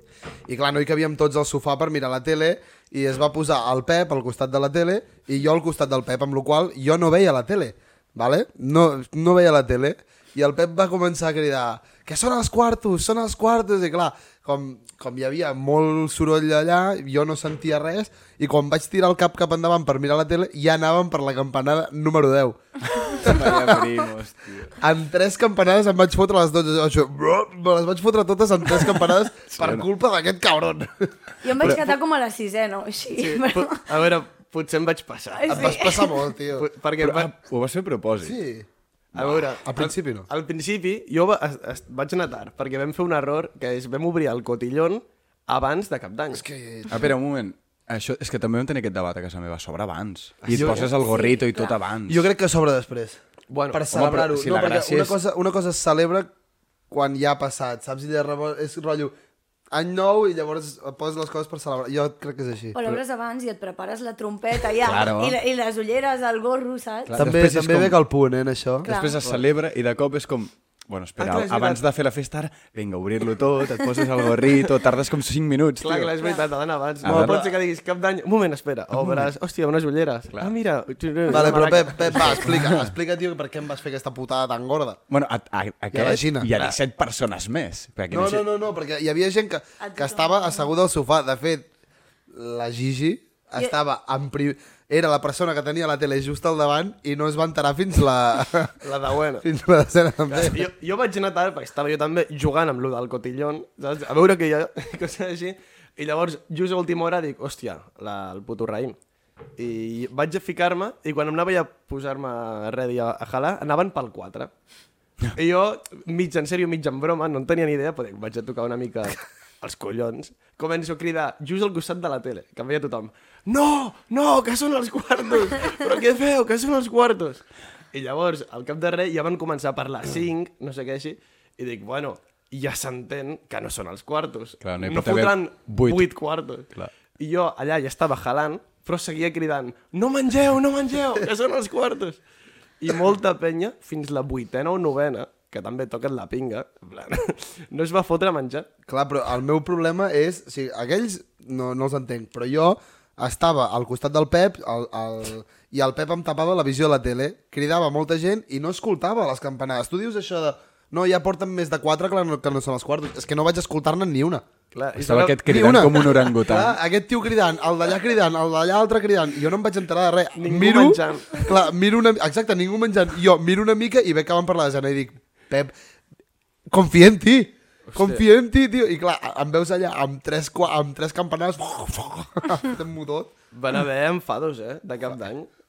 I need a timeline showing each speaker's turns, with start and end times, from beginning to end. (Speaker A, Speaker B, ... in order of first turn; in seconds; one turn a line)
Speaker A: 0.5-22.6
Speaker B: 23.0-24.8
Speaker A: 23.1-23.9
Speaker A: 24.8-31.9
Speaker B: 29.5-29.9
Speaker C: 31.4-33.8
Speaker B: 31.6-31.9
Speaker D: 33.1-35.8
Speaker C: 35.3-36.3
Speaker A: 35.5-36.7
Speaker D: 36.5-37.3
Speaker B: 37.0-38.4
Speaker A: 38.2-38.7
Speaker D: 39.1-46.4
Speaker B: 39.2-39.5
Speaker A: 39.6-40.3
Speaker A: 46.3-47.1
Speaker B: 46.9-52.2
Speaker A: 50.5-50.9
Speaker D: 50.5-50.9
Speaker C: 50.9-51.8
Speaker A: 52.1-56.3
Speaker D: 53.5-54.0
Speaker B: 53.9-55.2
Speaker A: 56.9-59.1
Speaker A: 59.7-62.9
Speaker C: 62.7-67.2
Speaker B: 64.8-65.4
Speaker B: 67.1-68.0
Speaker A: 67.2-68.9
Speaker C: 68.8-69.2
Speaker B: 68.8-76.1
Speaker D: 71.2-71.8
Speaker D: 75.8-82.5
Speaker C: 76.2-76.5
Speaker B: 77.0-77.4
Speaker A: 77.0-77.5
Speaker A: 81.3-85.0
Speaker B: 82.5-82.9
Speaker B: 85.1-88.5
Speaker A: 85.9-86.5
Speaker A: 88.1-91.7
Speaker C: 89.8-90.7
Speaker A: 92.3-98.8
Speaker D: 98.8-99.5
Speaker A: 99.4-100.7
Speaker D: 100.3-109.0
Speaker D: 109.6-114.5
Speaker D: 115.3-142.2
Speaker B: 134.6-136.1
Speaker D: 142.8-148.7
Speaker A: 148.9-164.4
Speaker D: 164.7-166.1
Speaker B: 165.0-166.8
Speaker A: 165.4-175.7
Speaker D: 170.4-171.5
Speaker A: 176.7-183.3
Speaker D: 177.9-178.2
Speaker D: 183.5-185.5